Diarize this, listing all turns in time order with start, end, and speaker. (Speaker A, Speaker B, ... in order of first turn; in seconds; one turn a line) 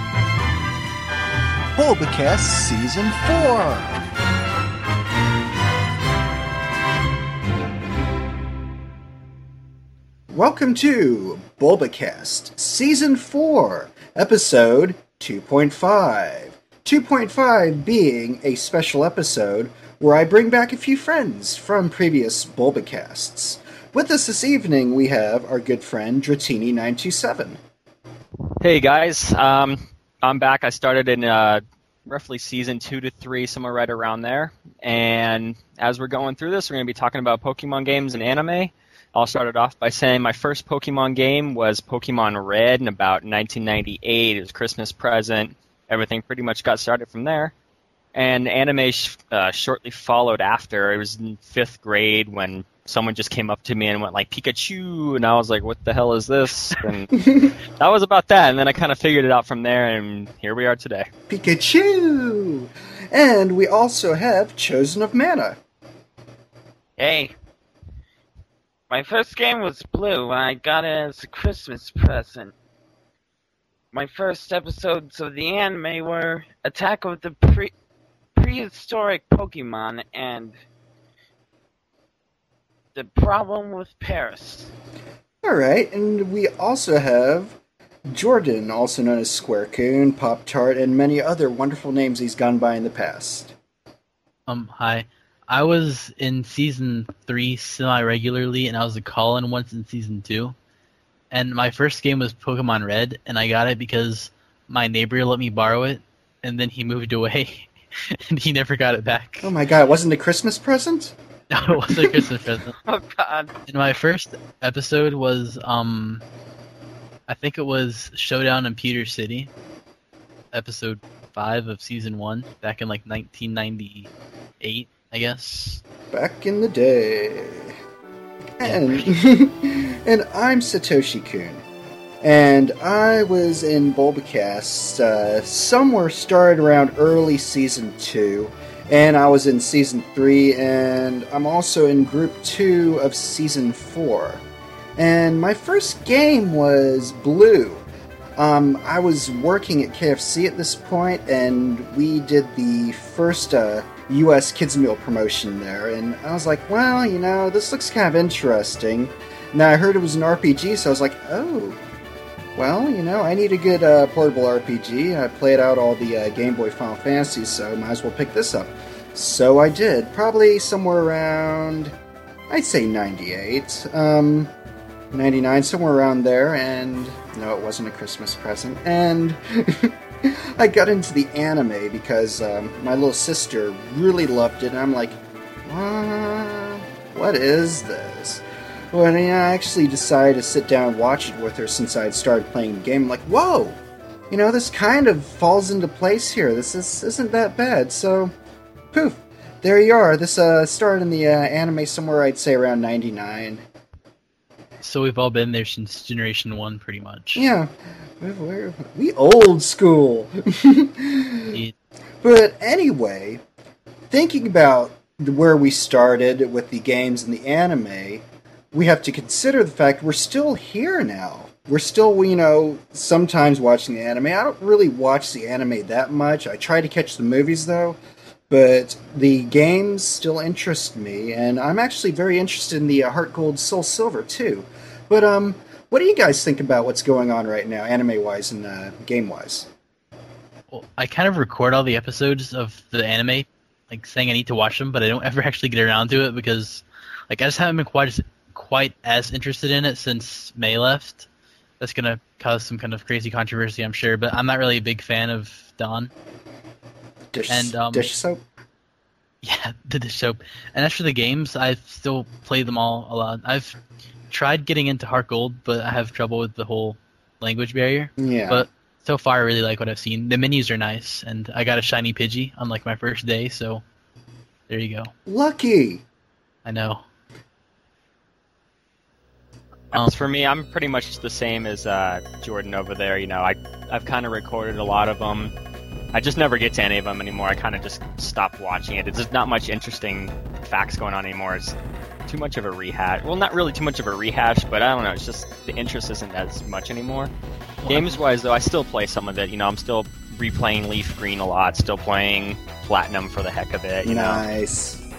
Speaker A: 1.7-4.0
Speaker A: 10.3-27.6
Speaker B: 28.6-47.5
Speaker B: 48.1-61.1
Speaker A: 57.2-57.5
Speaker A: 61.3-65.6
Speaker C: 67.0-67.3
Speaker C: 68.9-72.5
Speaker C: 73.9-77.7
Speaker C: 78.3-80.6
Speaker C: 82.9-84.7
Speaker A: 85.4-87.5
Speaker A: 88.1-93.5
Speaker D: 94.5-100.5
Speaker D: 101.3-109.5
Speaker A: 109.4-111.1
Speaker D: 111.5-112.8
Speaker A: 111.9-112.2
Speaker C: 112.8-113.5
Speaker D: 113.7-116.2
Speaker D: 117.3-119.5
Speaker D: 120.5-124.1
Speaker D: 124.6-125.8
Speaker A: 126.1-127.8
Speaker A: 128.6-131.6
Speaker D: 128.6-129.1
Speaker A: 132.2-144.4
Speaker A: 145.0-147.8
Speaker A: 148.4-161.8
Speaker A: 162.6-171.9
Speaker A: 172.5-174.5
Speaker A: 175.1-193.8
Speaker A: 194.3-198.3
Speaker A: 198.9-203.6
Speaker D: 204.8-207.5
Speaker A: 207.3-211.6
Speaker A: 212.2-213.4
Speaker A: 214.1-228.0
Speaker A: 228.5-239.7
Speaker D: 240.7-251.3
Speaker D: 251.8-256.1
Speaker A: 257.3-258.4
Speaker D: 257.5-258.1
Speaker D: 259.4-263.8
Speaker D: 264.3-273.8
Speaker A: 268.2-268.7
Speaker D: 274.7-275.1
Speaker A: 275.2-276.0
Speaker D: 276.6-277.0
Speaker D: 279.9-280.2
Speaker B: 279.9-285.5
Speaker B: 286.1-291.7
Speaker B: 292.3-297.3
Speaker D: 297.8-298.1
Speaker B: 297.9-304.4
Speaker A: 304.0-305.0